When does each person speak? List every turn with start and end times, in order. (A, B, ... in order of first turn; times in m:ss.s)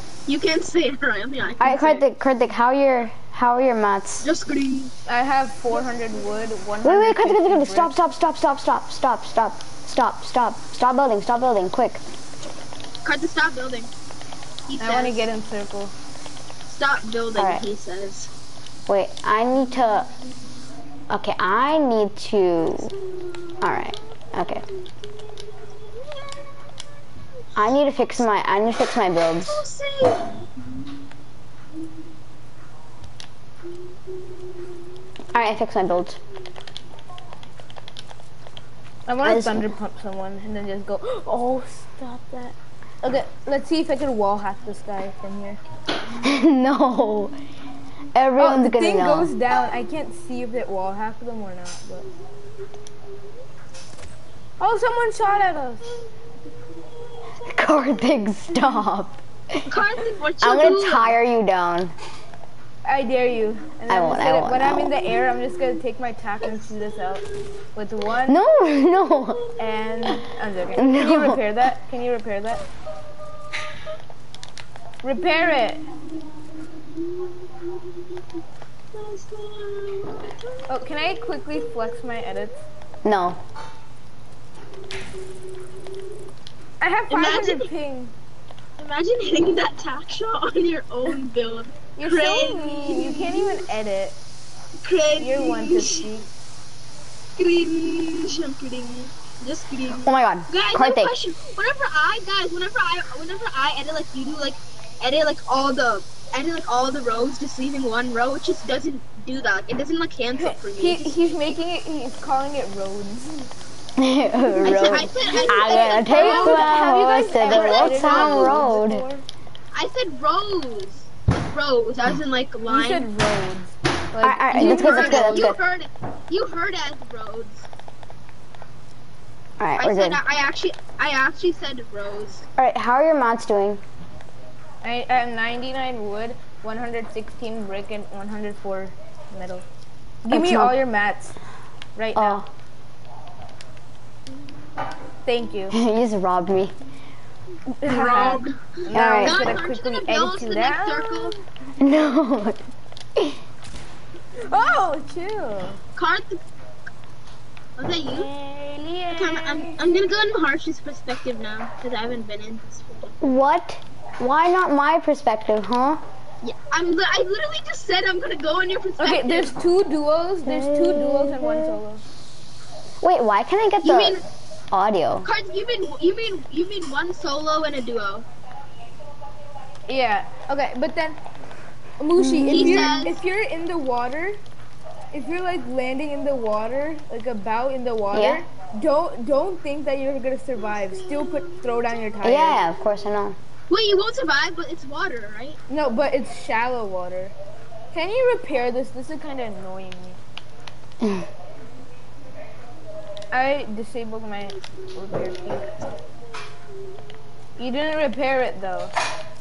0:00.3-0:02.0 A
0:01.6-0:04.2 B
0:04.2-0:04.9 A
0:05.1-0:07.9 C
0:06.8-0:12.0 B
0:13.0-0:13.9 A
0:14.7-0:15.3 A
0:14.8-0:15.9 C
0:16.7-0:18.3 A
0:17.4-0:17.6 B
0:18.9-0:20.1 B
0:21.1-0:22.9 B
0:22.9-0:23.9 A
0:23.6-0:24.6 B
0:25.6-0:26.7 A
0:27.6-0:29.6 B
0:29.5-0:30.5 A
0:35.3-0:36.2 B
0:39.1-0:45.6 C
0:39.2-0:39.7 B
0:46.2-0:47.4 B
0:48.2-0:49.3 B
0:48.4-0:52.1 C
0:54.6-0:56.0 C
0:57.5-0:59.7 B
0:59.7-1:01.2 A
1:00.4-1:01.9 B
1:02.8-1:07.2 C
1:03.9-1:05.1 B
1:07.8-1:08.4 C
1:08.3-1:09.4 B
1:09.1-1:09.6 A
1:09.6-1:12.6 C
1:10.8-1:11.4 B
1:15.0-1:15.9 C
1:16.8-1:18.2 A
1:18.9-1:20.6 A
1:20.7-1:22.6 C
1:23.0-1:23.4 B
1:26.8-1:28.1 C
1:27.1-1:27.7 A
1:28.8-1:33.6 A
1:32.0-1:34.2 C
1:34.8-1:36.1 A
1:35.2-1:36.3 C
1:37.4-1:51.2 A
1:40.0-1:41.2 B
1:50.4-1:53.5 C
1:54.0-1:59.0 B
1:54.6-1:58.6 A
1:55.5-1:59.2 C
1:59.7-2:03.1 A
2:02.7-2:05.6 C
2:04.2-2:05.6 B
2:04.5-2:07.7 A
2:09.6-2:10.2 B
2:09.8-2:12.5 A
2:12.6-2:13.8 B
2:14.8-2:19.6 C
2:20.2-2:21.4 C
2:20.3-2:20.8 B
2:22.0-2:22.4 C
2:22.2-2:22.5 B
2:25.2-2:25.8 C
2:25.7-2:26.7 B
2:27.8-2:31.4 C
2:27.9-2:31.3 A
2:28.9-2:29.5 B
2:31.8-2:32.6 B
2:34.4-2:35.8 C
2:36.0-2:36.4 A
2:37.8-2:38.3 A
2:38.1-2:39.8 C
2:39.2-2:43.2 A
2:43.2-2:46.0 B
2:46.4-2:49.6 A
2:49.0-2:52.0 C
2:50.4-2:51.8 B
2:53.0-2:55.3 B
2:53.8-2:54.2 A
2:55.2-2:58.2 A
2:59.9-3:01.2 C
3:02.0-3:04.4 C
3:02.2-3:03.0 B
3:02.5-3:03.2 A
3:05.1-3:12.6 C
3:08.1-3:08.4 B
3:10.8-3:11.8 A
3:12.2-3:13.4 B
3:13.7-3:15.6 A
3:15.7-3:17.4 C
3:17.9-3:20.2 C
3:21.0-3:21.3 B
3:23.3-3:25.8 C
3:27.6-3:28.9 C